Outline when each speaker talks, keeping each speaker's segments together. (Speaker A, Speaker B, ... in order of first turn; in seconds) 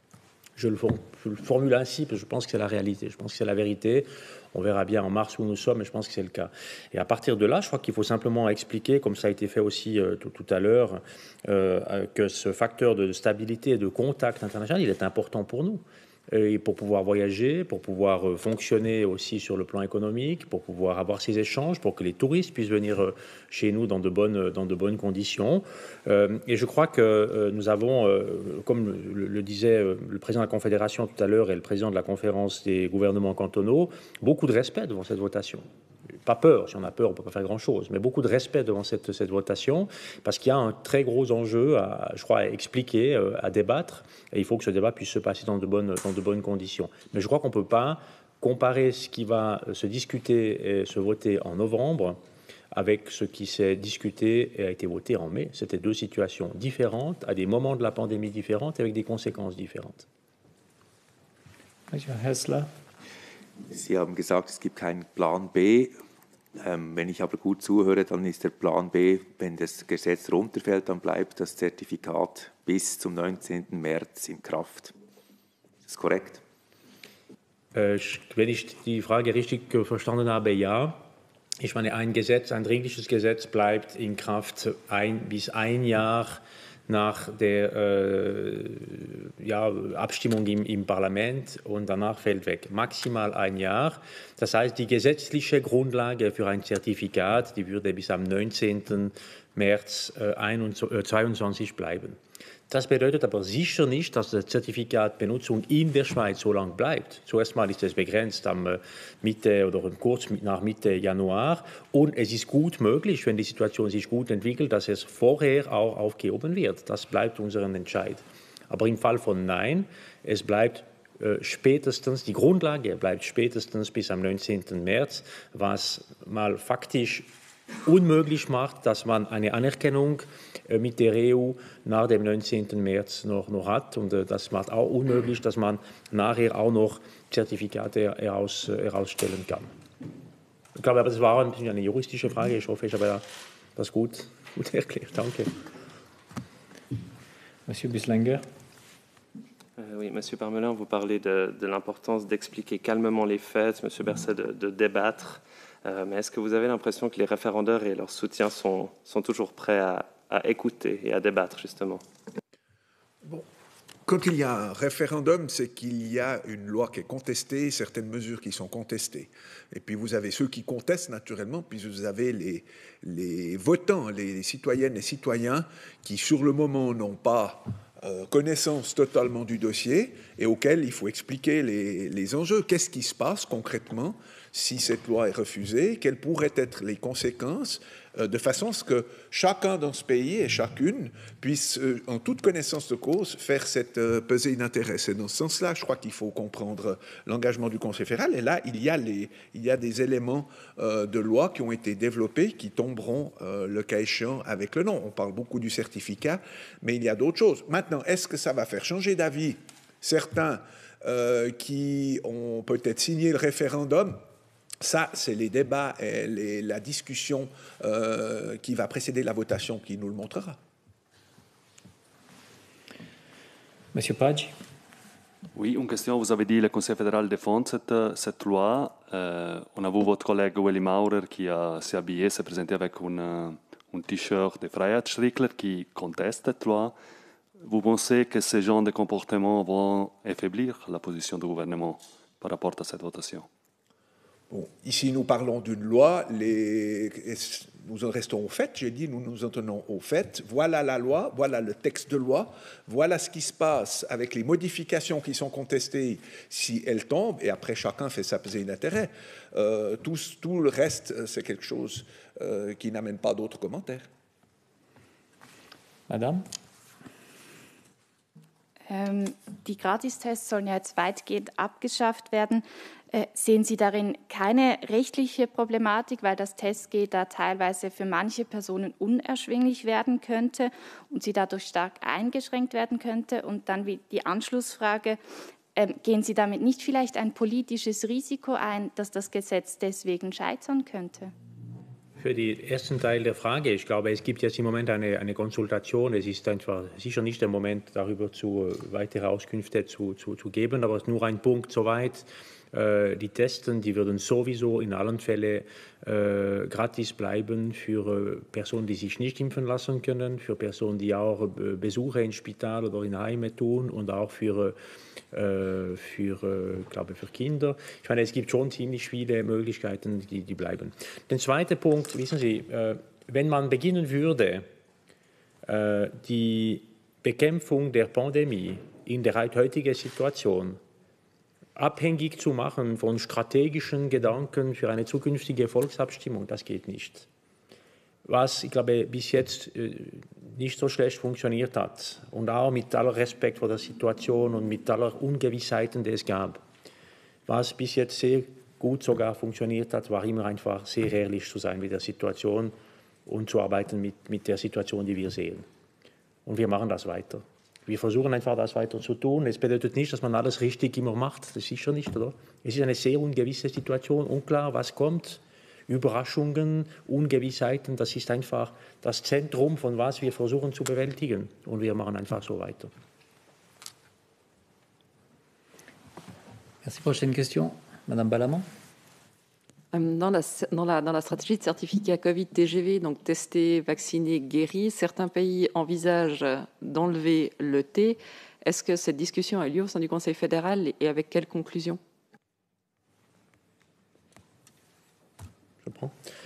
Speaker A: 0.6-35.6, 36.2-52.2, 52.7-60.0, 77.7-81.0, 81.6-102.2, 102.7-127.2, 127.8-139.7, 140.8-143.2, 143.8-145.5, 292.2-314.8, 315.3-324.6, 325.6-330.8, 331.8-337.3, 338.2-346.6, 347.5-352.7, 353.3-355.6, 356.4-372.9, 395.8-396.1
Speaker B: 61.9-62.7, 147.7-148.4, 223.9-224.5, 266.1-266.4, 376.8-378.6
Speaker C: 63.7-66.0, 66.5-74.9, 75.8-76.4
Speaker D: 149.8-162.0
Speaker E: 164.1-214.2, 214.8-220.6, 244.5-264.1
Speaker F: 225.5-237.0, 237.6-243.5
Speaker G: 268.9-285.2, 285.7-291.3
Speaker H: 379.9-392.0